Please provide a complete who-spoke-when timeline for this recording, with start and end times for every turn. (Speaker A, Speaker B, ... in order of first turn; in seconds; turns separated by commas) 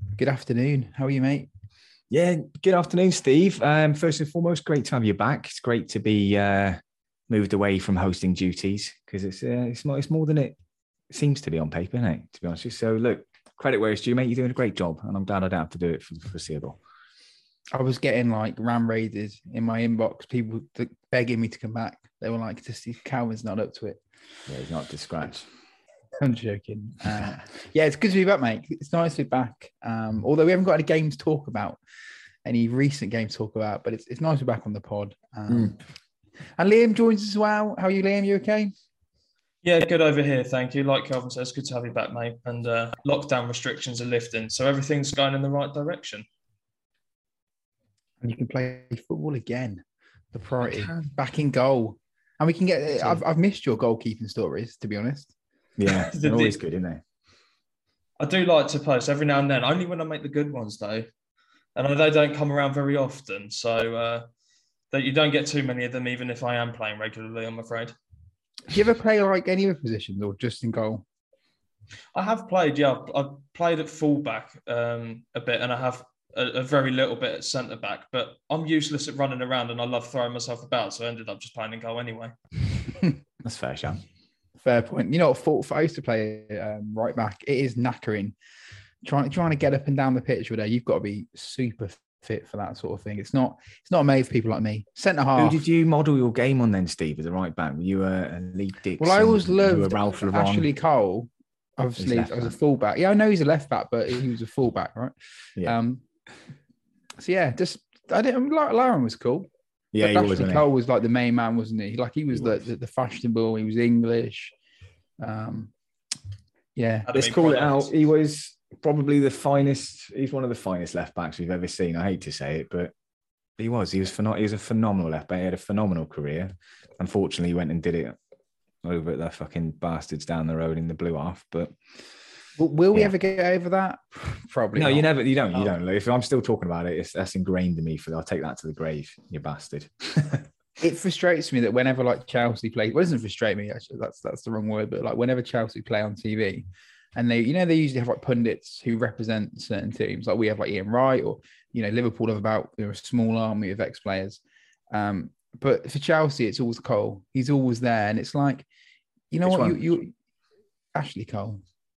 Speaker A: 0.2-1.5, Speaker B: 2.1-10.6, Speaker B: 11.1-16.8, Speaker A: 17.7-24.0, Speaker B: 24.5-25.5, Speaker A: 26.2-31.8, Speaker A: 32.5-35.8, Speaker B: 35.5-35.7, Speaker A: 36.6-38.7, Speaker C: 39.6-46.2, Speaker A: 48.2-55.3, Speaker B: 50.6-51.1, Speaker B: 55.8-57.0, Speaker C: 55.9-56.6, Speaker C: 58.2-61.1, Speaker C: 61.8-64.3, Speaker C: 64.9-67.9, Speaker A: 68.7-71.0, Speaker C: 72.1-82.3, Speaker B: 83.4-84.0, Speaker A: 84.6-88.3, Speaker A: 89.0-95.6, Speaker B: 95.4-100.7, Speaker A: 99.0-106.0, Speaker B: 102.0-102.5, Speaker A: 107.2-109.5, Speaker B: 109.9-110.7, Speaker A: 110.0-114.5, Speaker A: 115.2-115.7, Speaker A: 116.7-117.1, Speaker C: 117.1-117.9, Speaker B: 117.1-122.9, Speaker B: 123.6-128.2, Speaker B: 128.8-131.7, Speaker A: 132.6-135.1, Speaker B: 134.7-140.5, Speaker A: 140.8-154.4, Speaker A: 154.9-158.7, Speaker A: 159.3-160.1, Speaker B: 159.4-159.8, Speaker A: 160.9-161.6